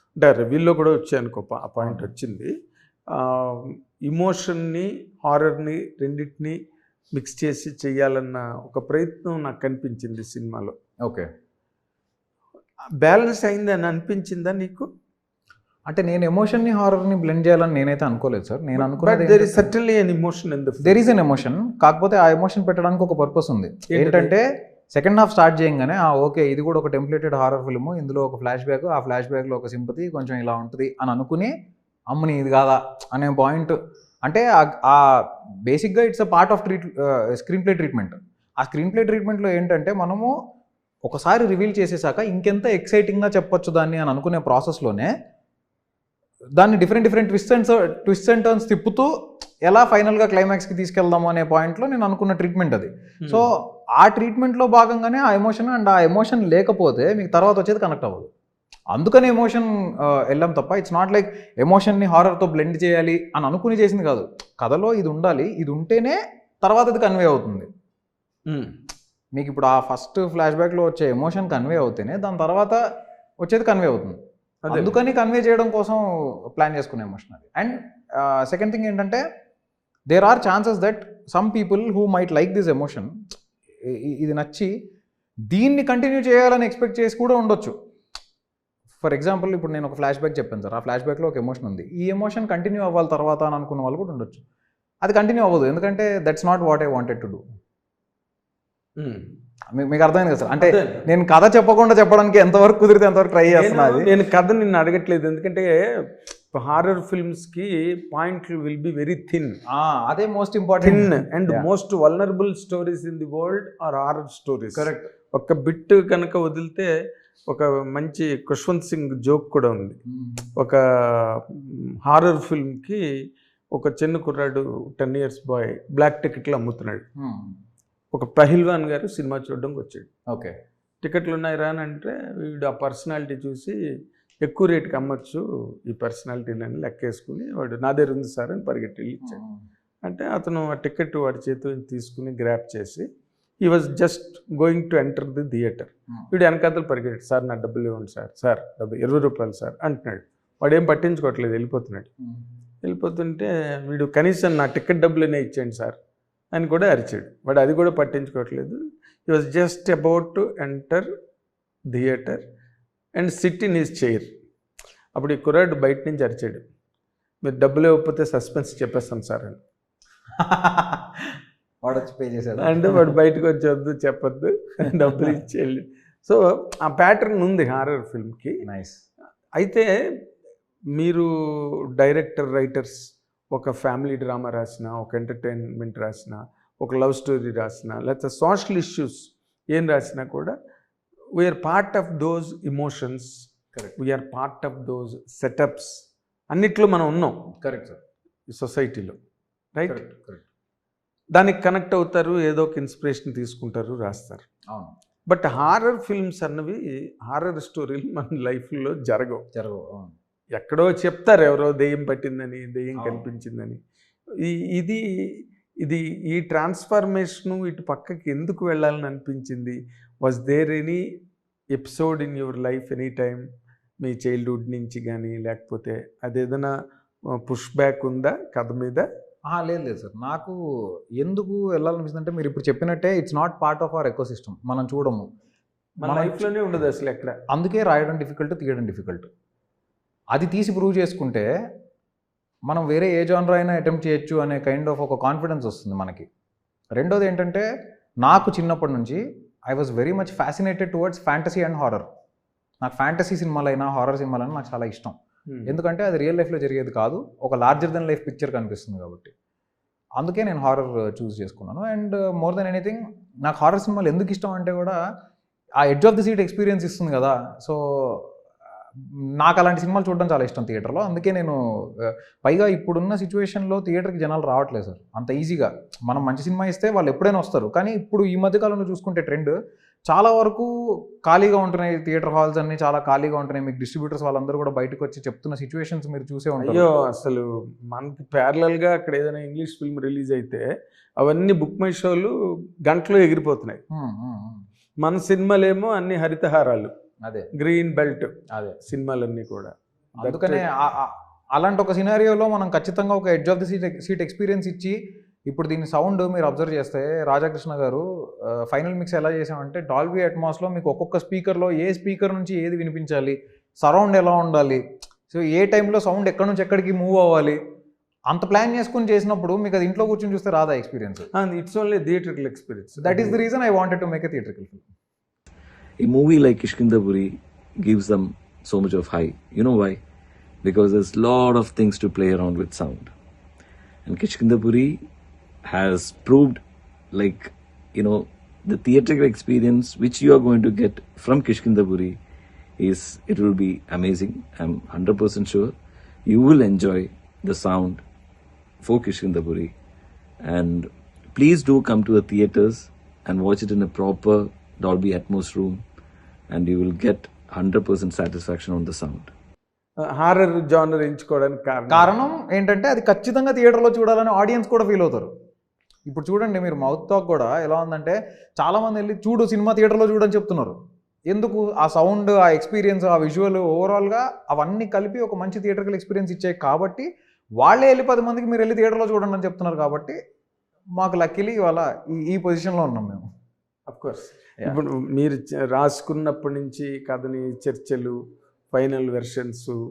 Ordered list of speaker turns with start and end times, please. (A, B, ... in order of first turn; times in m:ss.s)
0:00.2-0:02.5 A
0:03.1-0:06.6 A
0:07.1-0:10.7 A
0:13.0-0:14.9 A
0:15.9-0:19.7 B
0:18.8-0:21.0 A
0:20.8-0:24.4 B
0:23.9-0:24.3 A
0:24.9-0:31.5 B
0:32.1-0:40.3 B
0:41.0-0:45.1 B
0:46.6-0:49.1 B
0:49.6-0:58.3 B
0:58.9-1:07.7 B
1:08.4-1:08.7 A
1:09.3-1:12.8 B
1:13.4-1:14.2 B
1:14.6-1:15.0 A
1:14.7-1:16.0 B
1:16.6-1:19.2 B
1:20.1-1:23.1 B
1:23.9-1:24.7 B
1:25.5-1:27.7 B
1:29.0-1:34.4 B
1:35.0-1:37.4 B
1:39.0-1:39.3 A
1:39.7-1:44.1 B
1:40.6-1:41.1 A
1:43.5-1:45.8 A
1:46.3-1:49.6 A
1:49.7-1:51.7 B
1:50.8-1:56.9 A
1:54.7-1:55.1 B
1:57.5-2:00.0 A
2:00.1-2:00.4 B
2:00.6-2:03.0 A
2:03.7-2:07.0 A
2:07.2-2:07.6 B
2:08.1-2:10.1 A
2:10.3-2:10.6 B
2:11.0-2:13.8 A
2:14.4-2:19.4 A
2:19.2-2:19.6 B
2:20.0-2:23.1 A
2:23.6-2:32.1 A
2:32.8-2:36.0 A
2:36.5-2:41.1 A
2:41.9-2:42.4 A
2:43.2-2:44.3 A
2:45.2-2:46.6 A
2:47.4-2:49.6 A
2:50.4-2:51.0 B
2:51.8-2:53.0 B
2:52.6-2:58.6 A
2:58.7-2:59.0 B
2:59.6-2:59.9 A
3:00.9-3:10.6 A
3:11.3-3:17.4 A
3:17.6-3:18.0 B
3:18.5-3:19.2 A
3:19.8-3:20.1 A
3:19.9-3:20.4 B
3:21.3-3:24.4 A
3:25.2-3:29.4 A
3:29.6-3:30.1 B
3:30.5-3:33.8 A
3:33.0-3:33.2 B
3:34.4-3:41.0 A
3:41.7-3:43.4 A
3:44.0-3:46.7 A
3:47.3-3:49.1 A
3:49.5-3:50.6 B
3:51.2-3:55.2 B
3:56.0-3:57.4 A
3:56.1-3:56.4 B
3:57.5-3:59.3 B
4:00.3-4:01.5 B
4:02.7-4:06.2 B
4:07.0-4:07.6 B
4:08.2-4:12.1 B
4:12.8-4:15.1 B
4:15.5-4:15.8 A
4:15.7-4:19.3 B
4:20.2-4:25.0 B
4:25.8-4:28.3 B
4:29.4-4:39.5 B
4:40.1-4:40.7 B
4:41.2-4:46.9 B
4:46.6-4:50.7 A
4:51.2-4:52.3 A
4:52.8-4:53.8 A
4:53.9-4:54.6 B
4:55.0-4:56.9 A
4:57.6-5:00.6 A
5:00.2-5:05.0 B
5:05.5-5:17.6 B
5:18.3-5:21.3 B
5:21.3-5:23.5 A
5:23.0-5:24.9 B
5:26.0-5:30.0 C
5:30.6-5:33.1 C
5:34.1-5:35.0 C
5:35.6-5:36.6 C
5:37.1-5:42.2 C
5:42.8-5:45.8 C
5:46.2-5:48.0 C
5:48.8-5:49.7 C
5:50.4-5:55.8 C
5:56.5-5:59.3 C
6:00.0-6:02.2 A
6:01.9-6:05.3 B
6:06.1-6:10.8 B
6:11.3-6:17.1 B
6:17.6-6:20.2 B
6:21.0-6:23.2 B
6:23.9-6:28.2 A
6:28.7-6:29.8 A